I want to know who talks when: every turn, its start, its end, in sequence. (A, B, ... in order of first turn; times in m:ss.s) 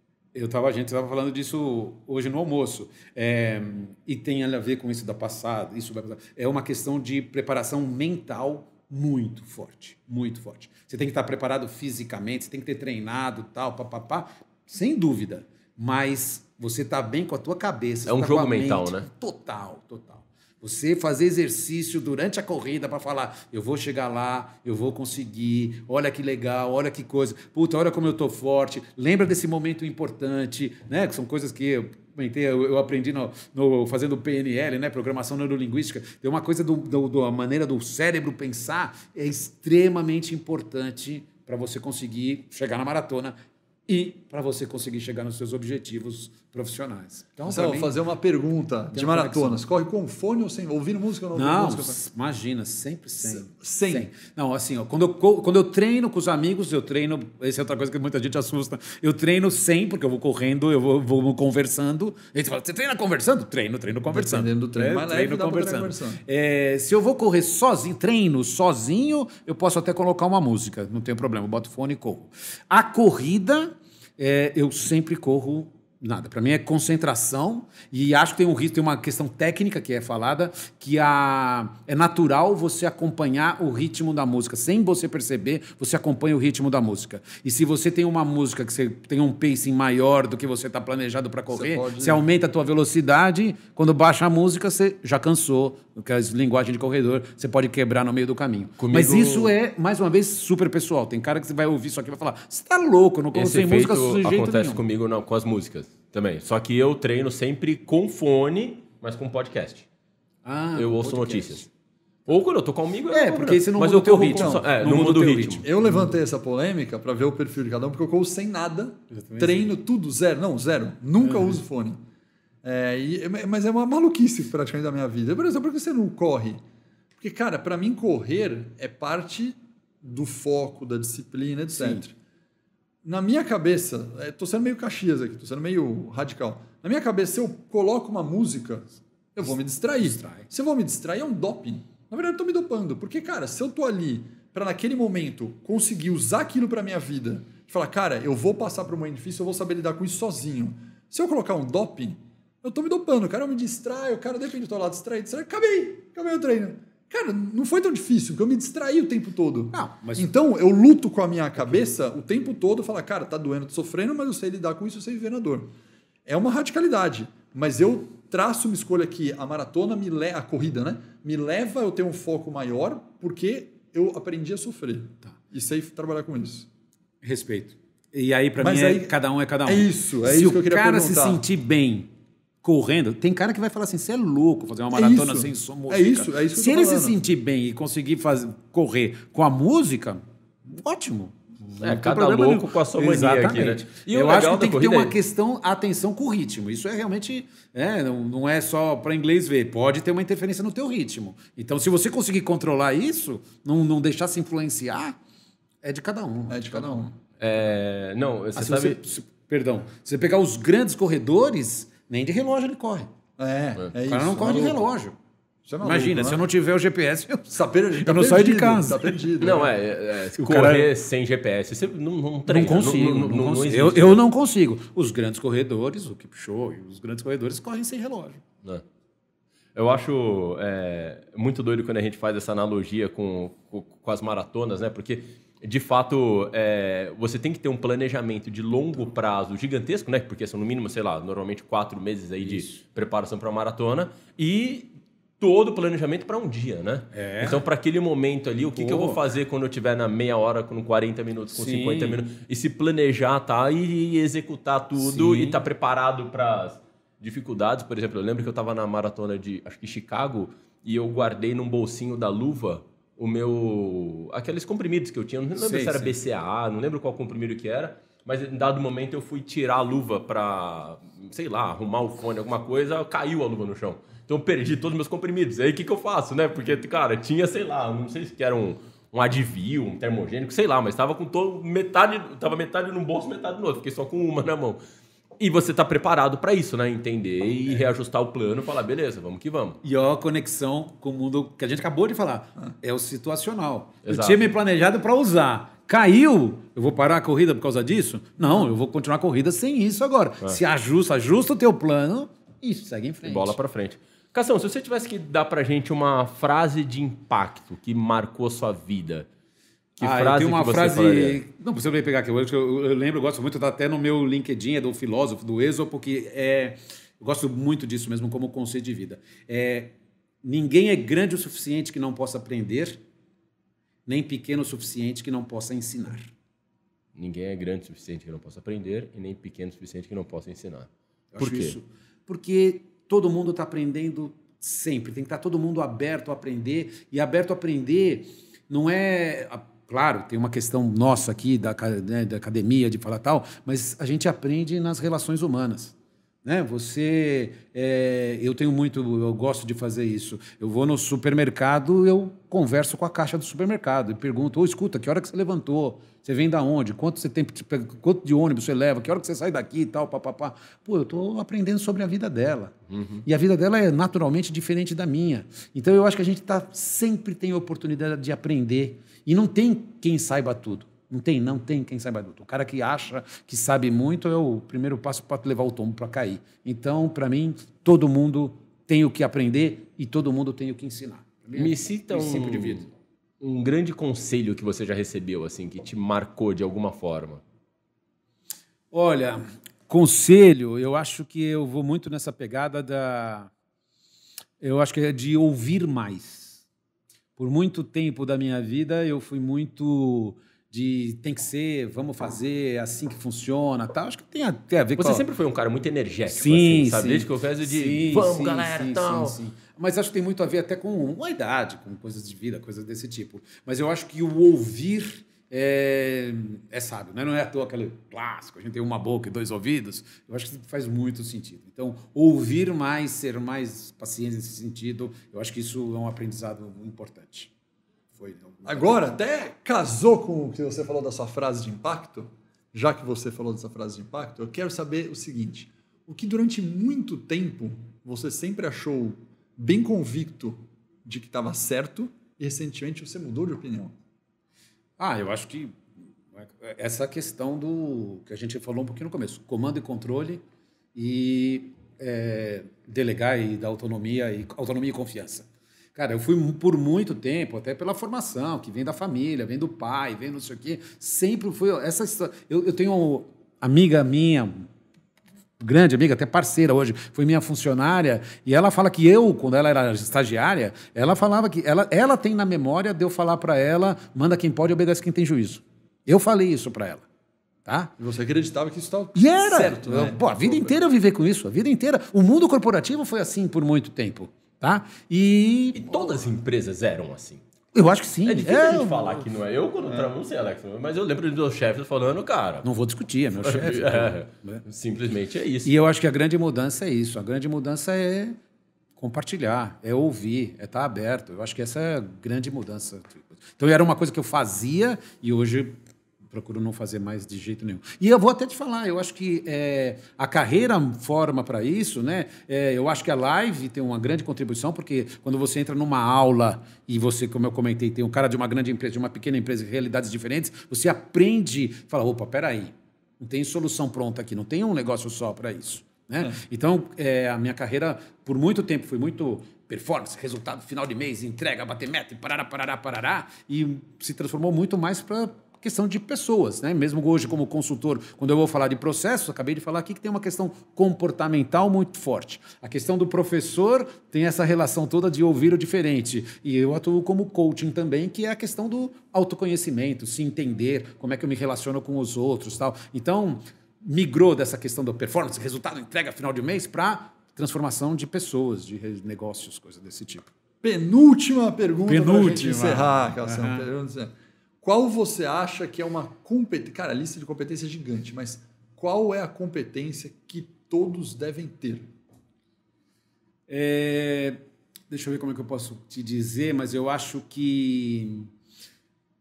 0:00.3-0:43.3 A
0:18.0-0:19.1 B
0:43.9-0:47.9 A
0:47.4-0:52.0 C
0:48.9-0:49.6 A
0:51.3-1:44.8 A
0:53.2-0:54.1 C
1:04.1-1:06.2 C
1:31.5-1:32.3 C
1:38.8-1:39.5 B
1:43.3-1:49.9 B
1:50.4-1:51.6 A
1:50.7-1:51.7 B
1:52.3-1:55.6 B
1:53.1-1:56.1 A
1:54.2-1:54.7 C
1:55.6-2:02.0 C
1:59.1-1:59.7 A
2:01.2-2:01.6 A
2:02.6-2:06.6 C
2:07.2-2:12.1 C
2:11.7-2:12.1 A
2:13.0-2:45.7 C
2:20.0-2:20.4 A
2:39.7-2:40.3 A
2:46.3-2:56.7 C
2:57.2-3:02.1 A
2:58.6-2:59.1 C
2:59.6-3:01.4 C
3:02.6-3:25.2 A
3:04.9-3:07.2 C
3:11.8-3:15.1 B
3:25.8-3:27.1 A
3:26.5-3:27.1 C
3:27.4-3:29.0 B
3:28.6-3:33.1 A
3:33.4-3:34.9 C
3:34.0-3:35.2 A
3:35.7-3:36.4 C
3:35.8-3:39.2 A
3:37.5-3:39.7 C
3:39.4-3:44.2 B
3:40.4-3:40.9 A
3:42.4-3:48.4 A
3:49.7-4:44.8 B
4:02.4-4:02.7 A
4:07.1-4:07.6 A
4:08.7-4:09.2 A
4:11.5-4:12.2 A
4:15.0-4:15.6 A
4:25.6-4:26.1 A
4:45.4-4:49.8 B
4:49.8-5:03.6 A
4:54.0-4:54.5 B
5:03.2-5:09.3 B
5:10.0-5:11.4 B
5:10.0-5:23.0 A
5:24.0-5:26.3 A
5:27.2-5:31.8 B
5:31.3-5:45.9 A
5:46.4-6:22.9 A
6:02.9-6:03.2 B
6:21.5-6:22.9 B
6:23.4-6:27.4 B
6:28.9-6:33.5 A
6:34.6-6:36.6 A
6:37.4-6:45.3 A
6:45.0-6:49.4 B
6:46.3-7:07.5 A
7:08.1-7:09.1 A
7:08.6-7:23.9 C
7:25.0-7:25.8 A
7:26.3-7:30.4 A
7:30.9-7:44.7 A
7:45.6-7:57.0 A
7:57.6-7:57.9 A
7:58.0-8:00.7 C
7:59.2-8:05.8 A
8:05.7-8:07.4 B
8:07.7-8:09.1 A
8:08.2-8:12.7 B
8:09.8-8:10.1 C
8:12.6-8:14.6 A
8:13.4-8:15.7 B
8:15.6-8:18.4 A
8:19.0-9:20.3 A
9:20.6-9:31.9 C
9:21.9-9:23.6 A
9:33.5-9:38.3 A